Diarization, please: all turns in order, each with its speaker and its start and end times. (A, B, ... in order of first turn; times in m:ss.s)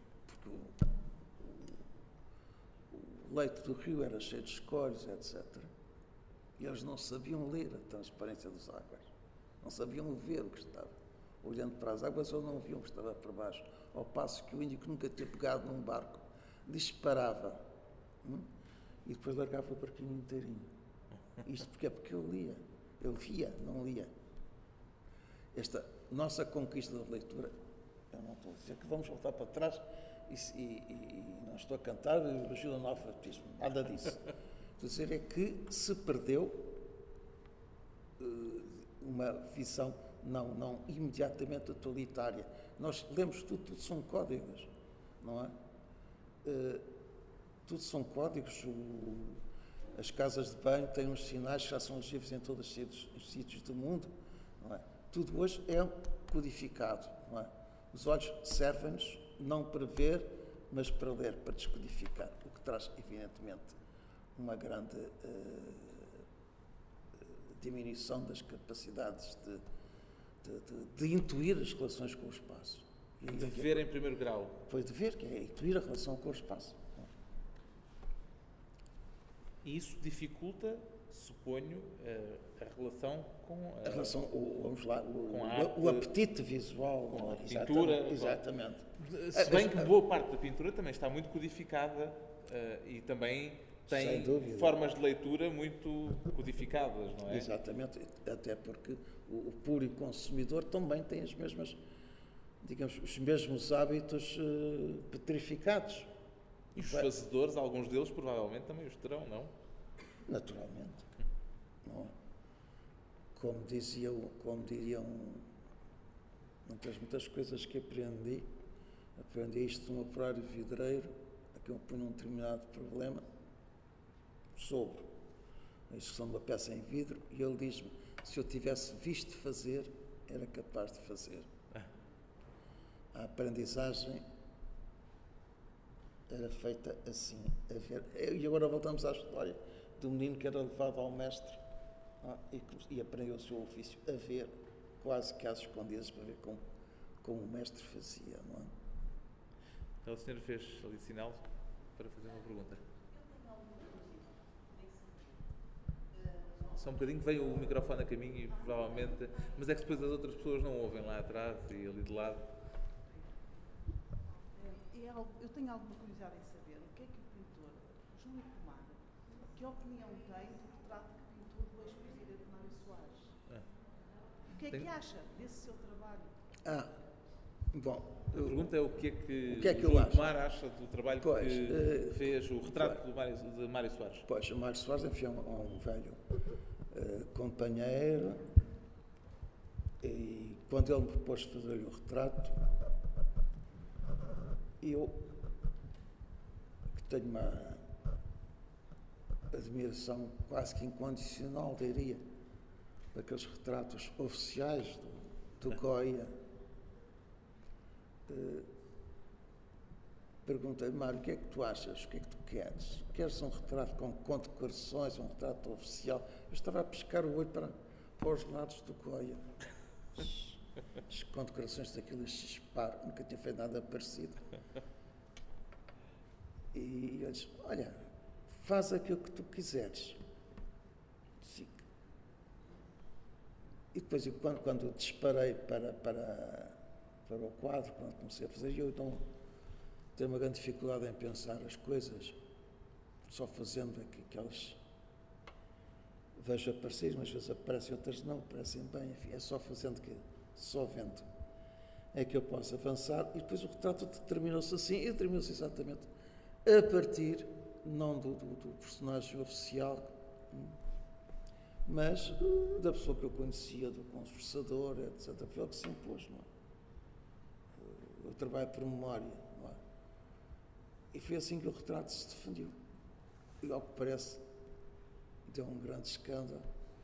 0:00.3-0:01.8 A
0:02.9-0:05.7 A
0:06.6-0:09.1 A
0:09.6-0:17.6 A
0:18.2-0:18.5 A
0:19.0-0:20.7 A
0:21.4-0:24.1 A
0:25.5-0:27.6 A
0:28.1-0:36.8 A
0:38.2-0:45.6 A
0:46.4-0:46.9 A
0:47.6-0:49.4 A
0:49.9-1:03.8 A
1:04.3-1:06.2 A
1:07.5-1:09.6 A
1:10.4-1:13.9 A
1:13.3-1:14.6 B
1:14.7-1:17.1 A
1:19.6-1:24.1 B
1:23.8-1:29.9 A
1:25.3-1:26.1 B
1:27.1-1:28.4 B
1:29.0-1:37.5 B
1:33.9-1:34.8 A
1:37.3-1:41.8 A
1:42.6-1:46.1 A
1:46.7-1:47.1 A
1:46.8-1:49.5 B
1:50.2-1:51.1 A
1:51.8-1:52.1 A
1:53.3-1:55.5 A
1:56.6-1:58.5 A
1:59.2-2:03.2 A
2:04.6-2:05.1 A
2:05.9-2:11.5 A
2:13.1-2:14.2 A
2:16.3-2:21.6 A
2:22.2-2:26.6 A
2:27.2-2:28.7 A
2:30.0-2:32.8 B
2:33.1-2:35.4 C
2:36.1-2:36.7 C
2:36.8-2:42.5 B
2:44.6-2:49.0 C
2:49.5-2:53.4 C
2:54.5-2:56.3 C
2:56.6-2:56.9 A
2:57.7-2:58.7 A
2:58.3-3:04.3 B
2:59.5-3:00.3 A
3:01.2-3:03.0 A
3:04.2-3:06.2 A
3:06.9-3:08.5 A
3:10.0-3:12.7 A
3:14.8-3:15.3 A
3:16.9-3:17.8 A
3:19.5-3:22.2 A
3:23.1-3:26.3 A
3:28.3-3:28.7 A
3:30.4-3:39.5 A
3:40.1-3:44.4 A
3:46.7-3:50.2 A
3:51.4-3:51.8 A
3:53.9-3:59.3 A
4:00.1-4:02.4 A
4:03.3-4:04.8 A
4:06.4-4:11.3 A
4:12.1-4:16.1 A
4:16.6-4:20.8 A
4:21.8-4:26.5 A
4:27.8-4:29.8 A
4:31.1-4:32.8 A
4:33.6-4:34.4 A
4:35.5-4:36.7 A